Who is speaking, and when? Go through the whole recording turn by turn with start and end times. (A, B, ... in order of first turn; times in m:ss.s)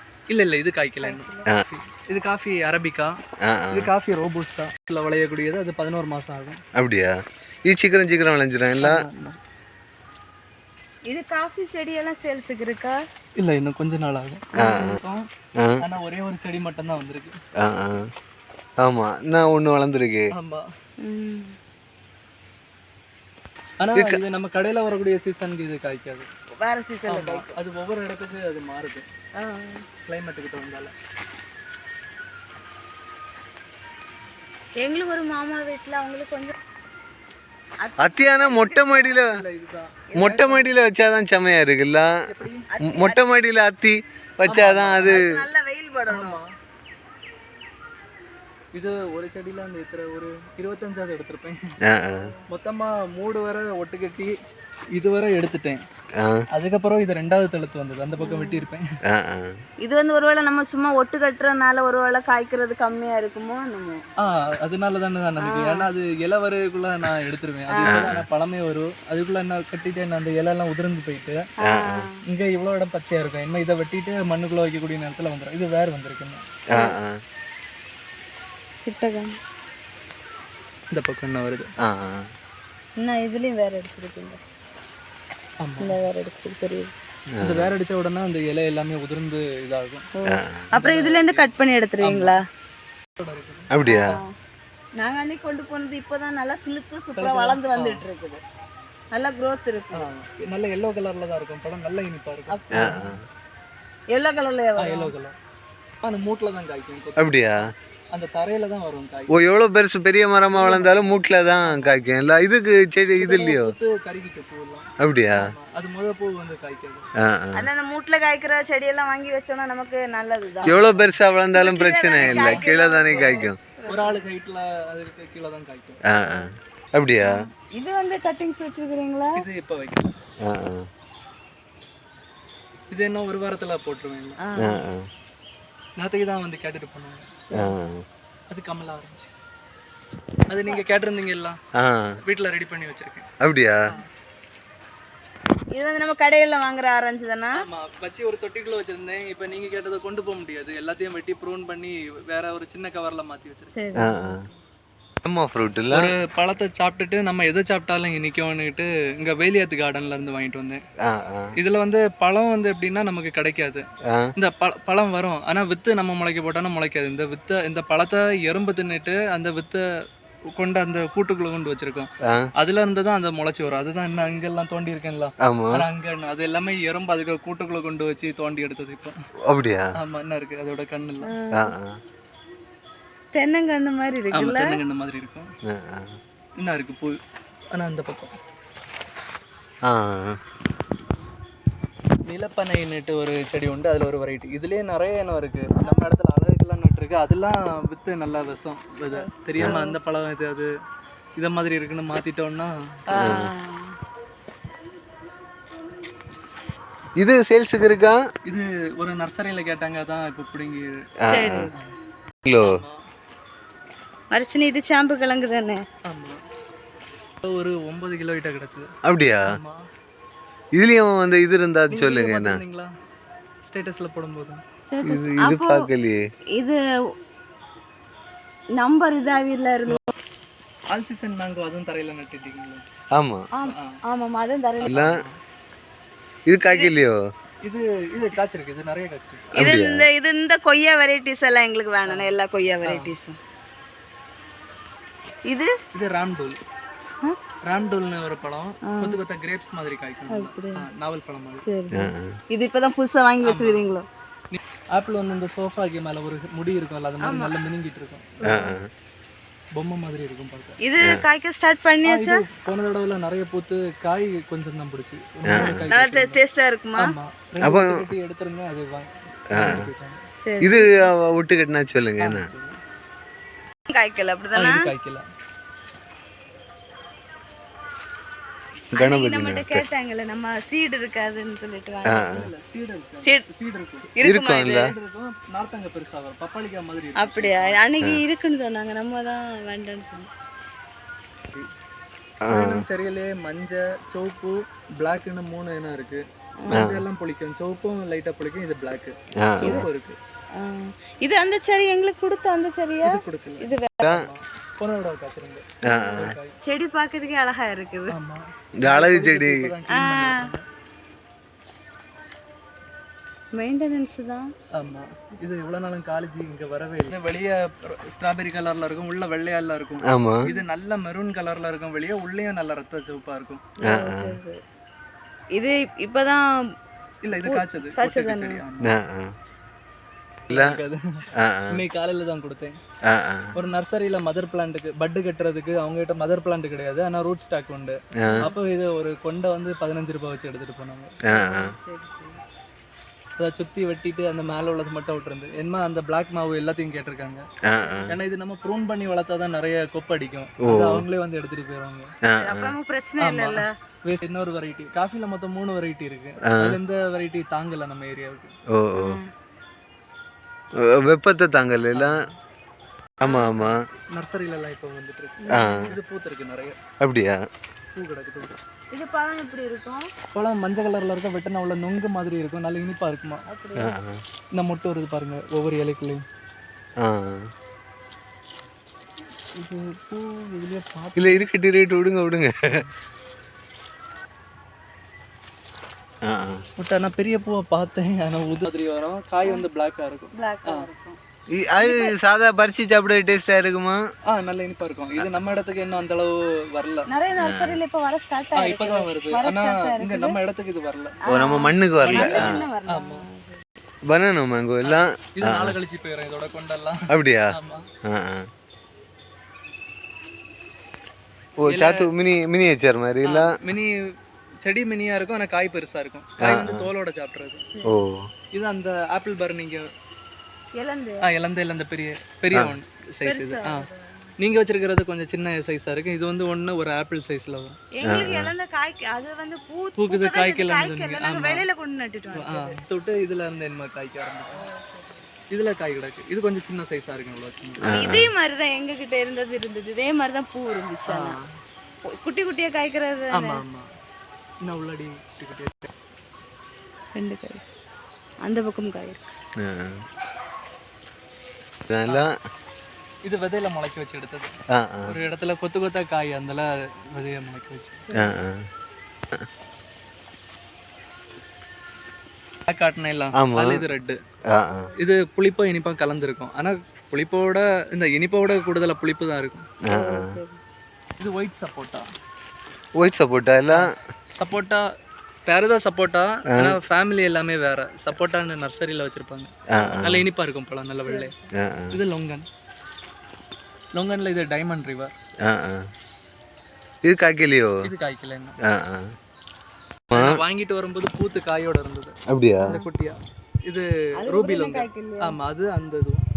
0:00.3-0:03.1 A
0:01.0-0:01.5 B
0:03.4-0:03.9 C
0:03.7-0:06.6 A
0:06.8-0:07.1 C
0:07.6-0:09.0 C
0:08.8-0:09.4 A
0:11.1-0:13.0 B
0:13.4-0:15.2 A
0:14.6-0:15.0 B
0:14.6-0:15.0 C
0:15.8-0:17.4 A
0:17.6-0:18.1 C
0:18.8-0:20.3 C
0:20.3-0:20.7 A
0:21.0-0:21.6 B
0:23.8-0:26.3 A
0:24.0-0:24.2 C
0:26.6-0:27.5 B
0:27.1-0:29.1 A
0:29.4-0:29.9 B
0:30.1-0:30.9 A
0:34.8-0:36.5 B
0:37.8-0:39.2 B
0:38.0-0:39.3 C
0:39.3-0:40.0 A
0:40.1-0:40.7 B
0:40.2-0:42.1 C
0:42.3-0:42.7 A
0:42.7-0:43.3 B
0:42.8-0:45.2 C
0:44.5-0:45.2 A
0:45.0-0:46.4 B
0:46.1-0:46.5 A
0:48.7-0:51.6 A
0:51.9-0:52.3 C
0:52.2-0:52.4 B
0:52.5-0:54.3 A
0:55.0-0:55.8 A
0:56.5-0:58.8 A
0:58.2-0:58.6 B
0:59.1-0:59.5 C
0:59.8-1:04.0 B
1:04.2-1:11.4 A
1:05.4-1:05.9 B
1:07.7-1:08.1 B
1:07.8-1:08.2 C
1:11.6-1:12.2 B
1:11.6-1:12.1 C
1:12.2-1:16.4 A
1:16.7-1:17.1 C
1:18.8-1:19.4 B
1:20.9-1:21.7 A
1:21.8-1:22.2 C
1:23.0-1:24.4 B
1:25.6-1:26.0 A
1:25.8-1:26.9 B
1:27.4-1:27.7 C
1:27.4-1:30.1 A
1:30.2-1:32.4 B
1:30.3-1:30.7 C
1:30.8-1:32.4 A
1:33.2-1:34.2 A
1:33.7-1:34.2 C
1:33.9-1:34.3 B
1:35.0-1:38.4 B
1:37.2-1:38.0 A
1:39.1-1:40.1 B
1:39.9-1:43.1 A
1:42.5-1:43.1 B
1:42.7-1:43.2 C
1:44.1-1:45.1 B
1:44.8-1:45.4 A
1:46.0-1:49.4 A
1:47.2-1:47.7 C
1:49.3-1:53.7 C
1:50.5-1:51.1 A
1:51.7-1:52.0 A
1:53.2-1:57.1 A
1:55.0-1:55.5 C
1:57.2-1:57.6 C
1:57.6-2:00.8 B
2:00.6-2:01.1 A
2:00.7-2:03.6 C
2:01.6-2:04.2 B
2:02.2-2:06.0 A
2:06.1-2:07.4 C
2:07.2-2:09.4 B
2:09.4-2:10.1 A
2:10.4-2:10.9 C
2:12.9-2:14.4 A
2:14.4-2:14.8 B
2:14.6-2:15.1 C
2:16.0-2:17.3 A
2:17.5-2:17.8 B
2:17.6-2:18.0 C
2:18.5-2:19.3 A
2:20.5-2:21.6 A
2:21.8-2:22.2 C
2:22.2-2:23.3 A
2:23.4-2:23.8 C
2:25.7-2:27.6 B
2:27.6-2:33.7 A
2:33.7-2:34.6 B
2:34.0-2:34.4 C
2:35.3-2:36.1 C
2:35.9-2:40.8 A
2:41.1-2:41.5 C
2:41.6-2:43.8 A
2:44.4-2:49.8 A
2:50.6-2:59.2 A
2:55.4-2:55.8 C
2:59.5-2:59.9 C
3:00.0-3:01.3 A
3:01.2-3:01.7 B
3:01.5-3:02.0 C
3:03.3-3:04.7 B
3:04.3-3:05.5 A
3:05.7-3:06.2 C
3:06.6-3:07.2 A
3:07.7-3:08.3 A
3:09.9-3:10.4 C
3:12.3-3:20.7 A
3:15.8-3:16.1 B
3:19.1-3:20.0 B
3:21.4-3:23.3 A
3:23.1-3:23.9 B
3:23.2-3:23.5 C
3:27.2-3:28.2 C
3:28.5-3:31.0 A
3:31.3-3:31.7 C
3:31.3-3:31.8 B
3:32.5-3:32.7 C
3:32.6-3:33.0 A
3:34.3-3:35.8 B
3:36.1-3:36.4 A
3:37.4-3:38.9 A
3:39.1-3:39.6 C
3:39.5-3:39.8 A
3:40.8-3:42.6 C
3:41.9-3:42.9 A
3:43.6-3:44.6 A
3:44.8-3:45.8 B
3:45.0-3:46.2 C
3:48.8-3:50.1 B
3:50.9-3:52.9 A
3:53.2-3:53.5 C
3:53.5-3:55.0 B
3:53.6-3:54.0 A
3:54.8-3:55.4 A
3:54.9-3:55.1 C
3:56.5-3:57.2 C
3:57.6-3:59.5 A
3:59.5-4:00.1 C
3:59.6-4:03.4 B
4:02.1-4:03.2 A
4:05.9-4:06.6 A
4:07.6-4:11.6 A
4:08.9-4:09.2 B
4:10.3-4:10.8 B
4:11.6-4:14.1 B
4:11.9-4:12.4 C
4:13.4-4:13.9 A
4:14.5-4:18.5 A
4:17.2-4:17.5 B
4:18.4-4:18.8 B
4:18.4-4:18.9 C
4:19.8-4:20.8 A
4:20.8-4:22.4 B
4:22.0-4:26.4 A
4:25.5-4:25.8 C
4:25.5-4:27.1 B
4:27.0-4:30.2 A
4:27.6-4:28.1 C
4:29.6-4:29.9 C
4:30.4-4:31.0 B
4:30.6-4:32.5 C
4:32.2-4:32.8 A
4:33.9-4:34.8 B
4:34.6-4:35.2 A
4:38.9-4:39.8 C
4:39.0-4:42.4 B
4:42.1-4:42.5 C
4:42.2-4:44.1 A
4:44.2-4:44.9 B
4:44.2-4:44.9 C
4:44.7-4:47.8 A
4:47.2-4:50.3 B
4:52.4-4:52.8 C
4:52.4-5:00.2 A
4:56.6-4:56.9 B
4:56.7-4:57.0 C
4:59.4-4:59.8 C
5:00.6-5:04.1 B
5:03.0-5:06.6 A
5:05.8-5:06.4 C
5:05.9-5:08.2 B
5:08.1-5:10.6 A
5:08.8-5:09.6 C
5:09.9-5:10.5 B
5:13.5-5:14.5 B
5:14.8-5:23.7 A
5:20.1-5:20.4 C
5:23.8-5:24.6 B
5:23.8-5:24.4 C
5:25.5-5:26.4 B
5:27.2-5:29.0 A
5:27.4-5:28.6 B
5:28.8-5:29.3 C
5:30.5-5:32.8 A
5:31.4-5:31.8 C
5:33.1-5:33.5 C
5:33.6-5:41.2 A
5:38.2-5:38.5 C
5:41.3-5:41.7 C
5:41.3-5:42.4 B
5:43.4-5:47.4 A
5:47.7-5:48.2 C
5:48.1-5:52.1 A
5:50.6-5:51.0 C
5:52.3-5:52.7 C
5:52.4-5:53.7 B
5:53.2-5:58.6 A
5:56.5-5:56.8 C
5:58.8-5:59.2 C
5:59.0-5:59.3 B
6:00.8-6:02.1 C
6:01.9-6:02.4 A
6:03.2-6:03.8 C
6:03.2-6:03.5 B
6:03.6-6:06.8 A
6:05.4-6:05.9 B
6:05.5-6:05.9 C
6:07.0-6:07.4 C
6:08.0-6:08.6 A
6:08.9-6:10.1 B
6:10.3-6:13.4 A
6:13.5-6:13.9 B
6:13.8-6:14.2 C
6:14.5-6:16.2 A
6:17.0-6:17.4 C
6:19.6-6:21.5 A
6:21.2-6:22.8 C
6:26.2-6:26.6 C
6:26.8-6:30.9 A
6:30.3-6:31.2 B
6:31.5-6:34.0 C
6:31.8-6:32.1 B
6:34.3-6:37.1 A
6:37.1-6:40.4 B
6:37.4-6:37.8 C
6:38.6-6:41.2 A
6:41.2-6:43.6 B
6:41.3-6:42.6 C
6:42.0-6:43.2 A
6:44.1-6:45.8 C
6:44.8-6:47.9 A
6:47.1-6:47.5 C
6:48.1-6:48.4 C
6:51.6-6:53.5 C
6:51.7-6:52.1 A
6:53.3-6:53.9 A
6:54.6-6:57.7 A
6:56.4-6:56.9 C
6:57.8-6:58.3 C
6:58.5-6:59.8 A
7:00.7-7:01.3 B
7:01.2-7:03.9 A
7:03.2-7:04.1 B
7:04.4-7:07.8 A
7:07.9-7:12.8 B
7:08.1-7:08.5 C
7:10.0-7:11.7 A
7:12.3-7:14.6 A
7:14.5-7:15.3 B
7:15.5-7:18.0 A
7:17.8-7:18.3 C
7:17.9-7:21.4 B
7:21.1-7:21.5 A
7:22.1-7:23.6 B
7:23.3-7:23.9 A
7:24.6-7:25.9 A
7:27.2-7:27.6 B
7:28.5-7:29.3 B
7:29.6-7:30.0 C
7:31.9-7:32.3 C
7:33.2-7:38.1 A
7:34.8-7:35.2 C
7:38.1-7:38.3 B
7:38.1-7:38.6 C
7:42.7-7:44.2 A
7:43.4-7:43.8 C
7:44.5-7:44.9 C
7:45.0-7:49.7 A
7:49.9-7:50.3 C
7:49.9-7:50.6 B
7:51.2-7:52.1 A
7:53.0-7:53.9 C
7:53.7-7:54.8 A
7:55.5-7:59.5 A
7:59.7-8:00.3 C
8:00.0-8:01.4 A
8:01.0-8:01.4 B
8:01.6-8:02.0 C
8:01.9-8:02.5 A
8:03.9-8:05.1 A
8:05.5-8:05.8 C
8:07.0-8:07.8 C
8:07.8-8:08.6 A
8:08.6-8:09.1 C
8:10.1-8:16.2 A
8:12.3-8:12.8 C
8:14.2-8:15.4 B